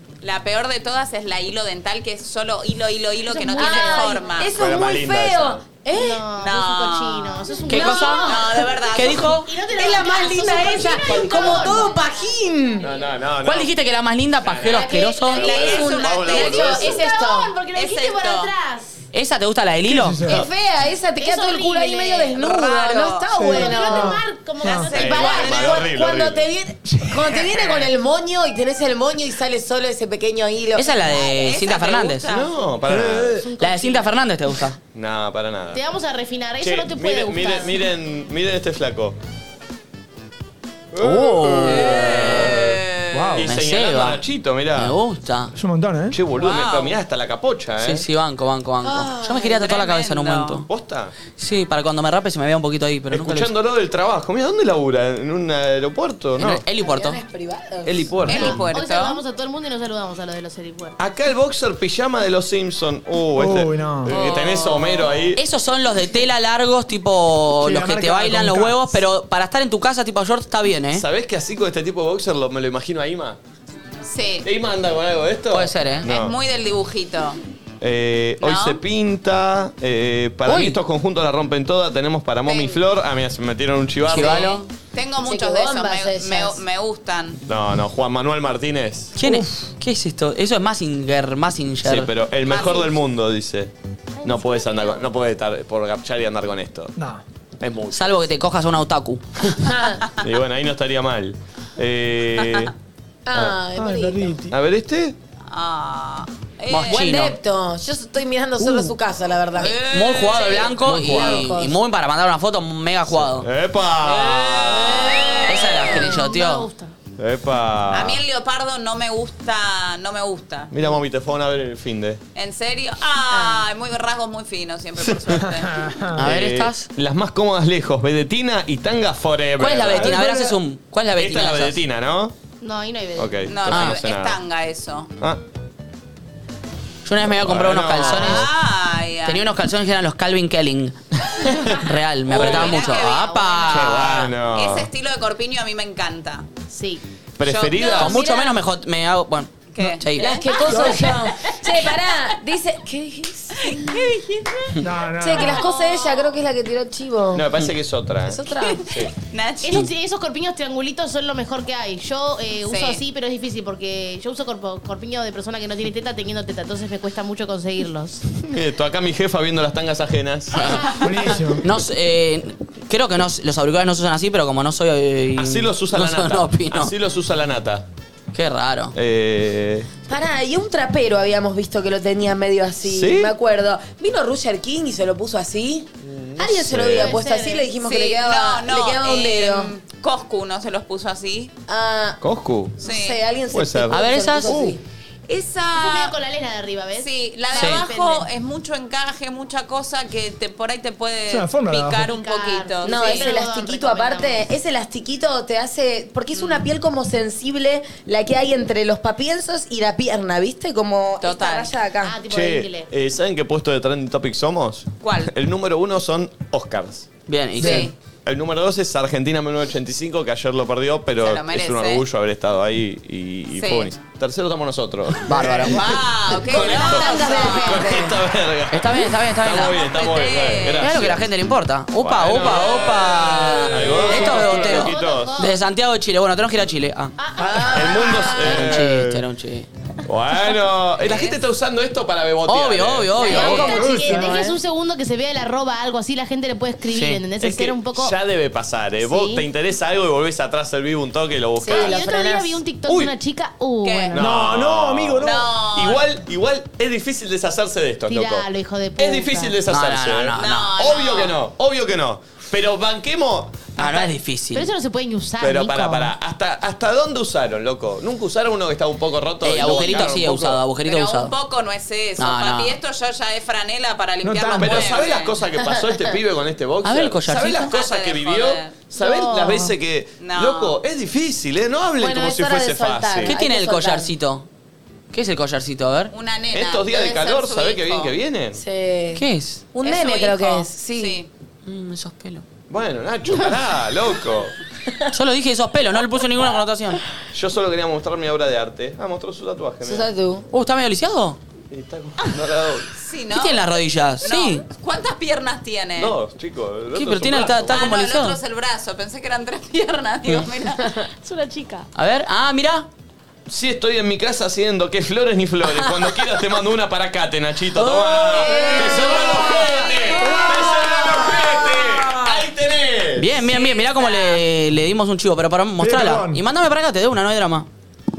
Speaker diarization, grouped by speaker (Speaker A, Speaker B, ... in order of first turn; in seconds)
Speaker A: 0.2-4.5, 6.4-7.5, 8.2-9.4, 15.3-17.0, 17.7-18.5, 22.3-23.6, 24.6-25.8, 31.1-32.6, 41.8-43.3, 46.3-47.0, 49.4-50.6, 58.3-59.2, 64.0-65.2, 74.1-74.5, 76.0-77.4, 78.4-78.8, 82.5-82.8, 84.1-87.4, 92.5-92.9, 105.5-107.2, 109.6-110.8, 114.1-115.9, 117.9-120.7, 122.3-126.0, 133.5-135.1, 137.9-139.5, 142.3-146.5, 147.4-148.4, 149.7-151.8, 153.6-154.8, 155.5-156.2, 158.6-159.9, 162.7-163.0, 187.8-191.5, 192.8-193.2, 195.3-196.2, 197.0-203.4, 206.3-206.7, 211.2-211.8, 215.0-215.3, 217.6-217.9, 221.2-222.1, 223.6-223.9, 225.6-227.9, 229.6-231.1, 253.8-254.2, 255.2-256.0, 260.4-261.4, 269.6-270.2, 270.8-275.4, 277.7-278.8, 280.2-280.8, 286.1-288.1, 289.8-291.3, 303.0-303.6, 304.2-306.2, 307.7-311.0, 318.3-319.3, 323.5-324.4
Speaker B: 3.3-4.2, 5.9-8.4, 9.0-12.1, 16.5-19.0, 21.2-22.4, 23.4-25.8, 33.3-34.2, 35.7-37.8, 58.6-61.0, 94.2-95.0, 114.9-117.0, 123.3-123.6, 132.6-133.5, 142.7-143.8, 146.7-147.0, 159.6-168.2, 186.8-187.7, 195.7-198.3, 202.0-204.4, 212.0-212.9, 233.8-235.6, 237.2-238.5, 243.2-248.2, 249.0-249.5, 251.7-254.3, 258.1-259.6, 263.8-266.1, 278.9-279.8, 311.2-311.9
Speaker C: 3.5-6.2, 7.7-8.9, 9.7-12.9, 14.7-17.5, 20.2-24.2, 25.3-31.5, 48.8-49.6, 56.8-58.1, 85.2-86.6, 99.6-100.0, 103.3-104.4, 106.9-111.8, 148.1-148.5, 150.2-154.1, 155.2-157.5, 158.2-158.9, 180.1-189.7, 191.7-192.2, 192.8-194.8, 202.8-212.2, 226.5-228.2, 237.5-238.1, 243.2-244.6, 251.6-252.6, 282.0-284.1, 288.6-291.2, 299.8-300.5
Speaker D: 4.5-5.6, 12.8-13.7, 14.4-17.0, 25.0-26.5, 32.3-33.4, 34.9-35.8, 36.6-39.2, 40.9-45.0, 46.1-48.1, 50.7-51.1, 53.1-56.6, 57.9-58.6, 61.0-65.4, 70.9-73.4, 74.4-76.3, 77.8-84.6, 87.5-89.2, 91.8-93.7, 94.2-96.9, 97.6-98.2, 100.2-102.7, 104.5-105.2, 110.7-111.5, 113.1-115.6, 117.2-118.2, 120.7-122.2, 126.2-130.2, 131.2-132.3, 133.2-134.4, 137.3-138.5, 141.3-142.8, 143.7-144.9, 147.4-148.2, 157.3-159.1, 168.3-170.9, 175.4-177.9, 178.9-179.9, 182.8-183.3, 186.1-187.2, 192.2-192.8, 193.5-194.0, 212.3-217.1, 217.6-231.3, 232.0-235.4, 237.6-239.2, 240.1-243.7, 247.4-252.0, 252.9-253.1, 254.2-263.7, 265.4-270.6, 274.6-283.4, 286.5-288.6, 292.7-294.6, 297.3-300.1, 301.7-302.9, 306.0-307.8, 313.5-323.4
Speaker E: 7.7-9.5, 13.4-15.5, 19.1-20.2, 30.8-32.2, 33.6-34.8, 41.0-42.6, 43.4-44.2, 44.8-45.5, 47.8-50.7, 51.4-53.5, 56.4-57.2, 65.4-71.0, 75.5-76.1, 80.5-80.8, 84.1-84.7, 89.2-92.1, 97.9-99.2, 106.7-107.4, 109.6-113.5, 115.5-116.7, 126.2-126.9, 129.6-131.8, 133.7-134.0, 137.1-138.5, 139.2-141.0, 141.6-144.3, 148.0-150.4, 170.6-170.9, 171.6-176.9, 178.3-178.9, 193.9-194.6, 197.6-197.8, 217.3-217.9, 225.3-225.8, 228.7-229.8, 230.8-237.1, 238.2-239.7, 242.5-243.8, 246.9-247.2, 259.7-260.7, 263.8-264.7, 269.4-271.3, 272.2-272.8, 276.8-277.7, 283.2-284.5, 285.1-286.1, 289.1-289.6, 291.7-292.4, 295.1-297.0, 300.5-301.4, 303.3-304.6, 306.9-308.4, 311.9-312.9, 317.8-319.9, 323.2-327.7
Speaker F: 19.9-20.4, 23.3-25.0, 26.9-27.6, 32.9-33.5, 43.1-43.5, 45.5-46.2, 63.3-64.2, 67.6-69.0, 89.2-89.5, 97.0-97.2, 103.7-104.5, 108.6-109.0, 125.4-126.2, 129.9-130.6, 150.7-151.0, 154.8-155.7, 170.9-171.6, 194.5-194.8, 201.3-202.1, 217.6-217.9, 243.6-244.4, 254.2-255.5, 274.2-275.0, 320.2-320.5, 325.8-326.4